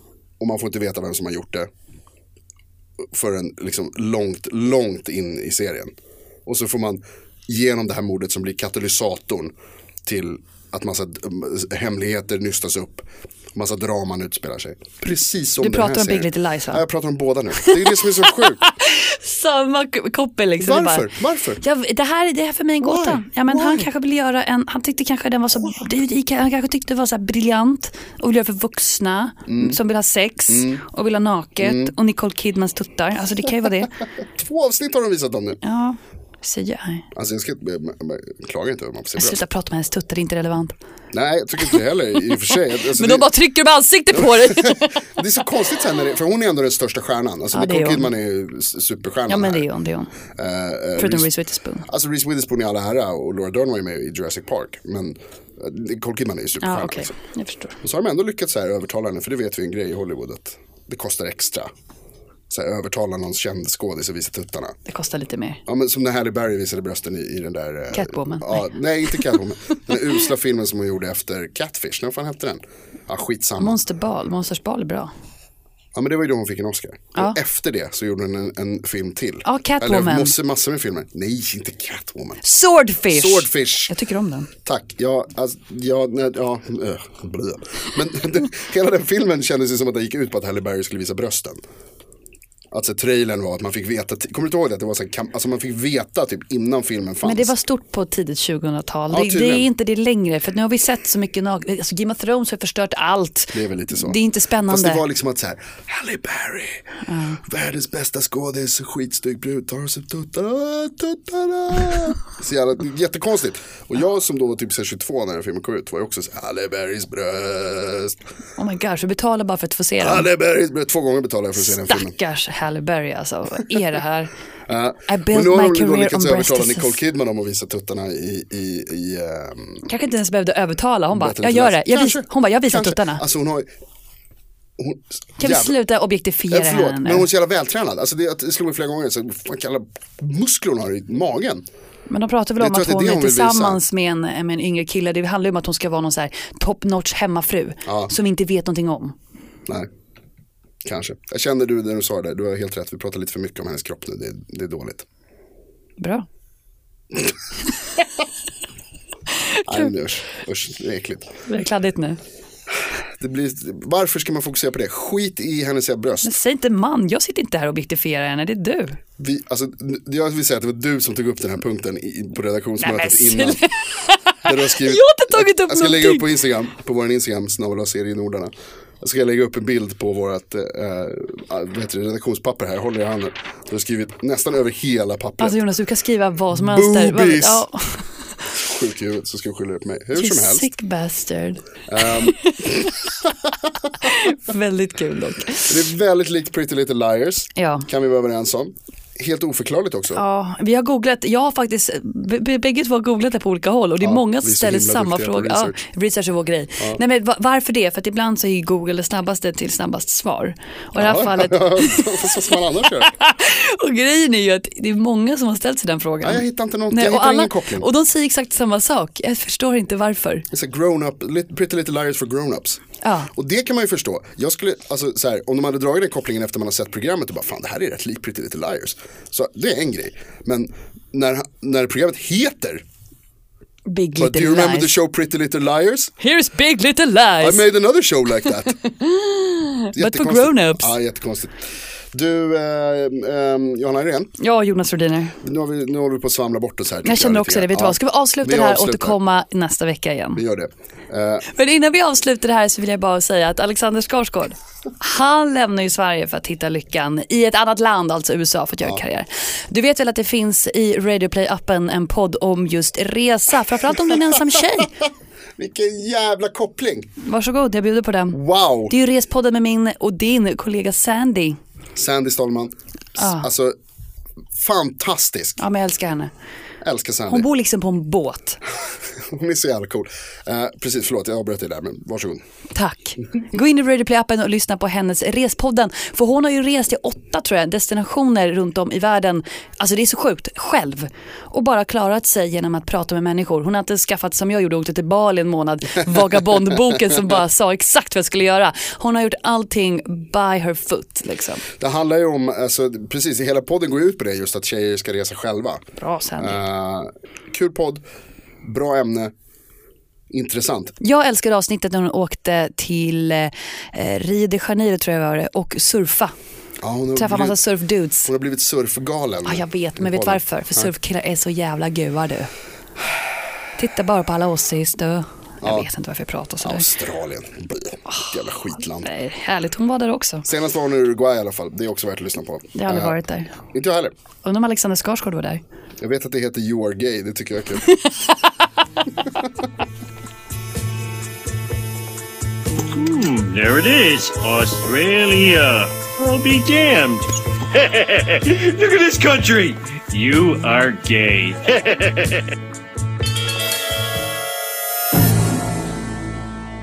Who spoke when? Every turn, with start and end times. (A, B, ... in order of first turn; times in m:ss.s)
0:00.4-0:01.7 A
0:03.1-0:05.9 A
0:06.5-0:09.5 A
0:10.1-0:18.6 A
0:15.6-0:16.8 B
0:17.6-0:21.1 B
0:20.6-0:21.6 A
0:21.6-0:33.9 B
0:22.8-0:23.9 A
0:29.5-0:29.8 A
0:30.5-0:30.8 A
0:31.6-0:31.9 A
0:34.4-0:35.6 A
0:35.6-0:37.0 B
0:37.1-0:39.4 A
0:39.2-0:40.7 B
0:41.1-0:43.3 A
0:42.9-0:45.1 B
0:44.1-0:49.6 A
0:47.5-0:48.1 B
0:49.3-0:50.1 B
0:50.4-0:51.3 A
0:51.0-0:51.9 B
0:51.9-0:57.1 A
0:56.6-0:57.8 B
0:57.8-1:01.7 A
1:02.5-1:04.8 A
1:04.9-1:05.6 B
1:05.7-1:13.8 A
1:07.9-1:09.2 B
1:13.6-1:15.1 B
1:15.9-1:22.4 A
1:19.4-1:20.4 B
1:22.4-1:24.5 B
1:23.1-1:23.9 A
1:24.6-1:31.6 A
1:32.7-1:37.5 A
1:37.2-1:45.0 B
1:39.1-1:39.7 A
1:43.5-1:58.2 A
1:47.1-1:47.4 B
1:58.6-2:00.3 B
2:00.0-2:02.2 A
2:01.6-2:04.3 B
2:04.7-2:09.8 A
2:05.1-2:07.0 B
2:09.8-2:13.2 B
2:11.1-2:13.7 A
2:14.8-2:15.7 A
2:15.4-2:17.3 B
2:16.5-2:21.6 A
2:22.1-2:29.2 B
2:22.6-2:23.8 A
2:27.9-2:28.1 A
2:30.8-2:35.1 A
2:36.0-2:36.3 B
2:39.7-2:41.4 A
2:41.5-2:42.2 B
2:42.8-2:46.4 A
2:46.2-2:49.0 B
2:49.2-2:53.7 A
2:52.8-2:56.3 B
2:54.4-3:05.6 A
3:05.4-3:08.1 B
3:06.5-3:07.7 A
3:08.5-3:10.7 A
3:10.2-3:12.9 B
3:11.9-3:13.7 A
3:14.0-3:15.8 B
3:15.6-3:20.2 A
3:17.6-3:17.9 B
3:20.1-3:40.5 B
3:24.0-3:25.8 A
3:31.0-3:33.1 A
3:36.2-3:37.9 A
3:40.5-3:42.8 A
3:43.0-3:43.3 B
3:43.3-3:52.8 A
3:53.9-3:55.0 B
3:54.2-3:56.1 A
3:56.2-3:57.7 B
3:57.4-3:58.8 A
3:58.8-4:00.9 B
4:00.0-4:04.3 A
4:04.4-4:05.4 B
4:05.4-4:09.2 A
4:07.0-4:10.4 B
4:10.4-4:11.5 A
4:11.5-4:24.9 B
4:25.6-4:27.1 A
4:27.2-4:31.6 B
4:28.3-4:29.0 A
4:32.0-4:33.8 A
4:33.2-4:33.5 B
4:34.6-4:35.6 A
4:35.6-4:36.3 B
4:36.8-4:37.5 A
4:37.3-4:38.6 B
4:39.2-4:42.4 A
4:42.7-5:01.7 B
5:01.8-5:05.8 A
5:06.0-5:06.6 B
5:06.4-5:08.0 A
5:08.6-5:09.3 A
5:10.3-5:10.9 A
5:11.0-5:16.3 B
5:16.8-5:17.6 A
5:17.2-5:18.3 B
5:18.3-5:20.9 A
5:19.5-5:22.5 B
5:23.8-5:26.9 B
5:25.6-5:25.9 A
5:26.6-5:29.1 A
5:29.0-5:30.4 B
5:30.4-5:33.2 A
5:32.8-5:33.6 B
5:33.7-5:34.1 A
5:34.4-5:35.6 B
5:36.0-5:37.9 A
5:42.9-5:52.5 C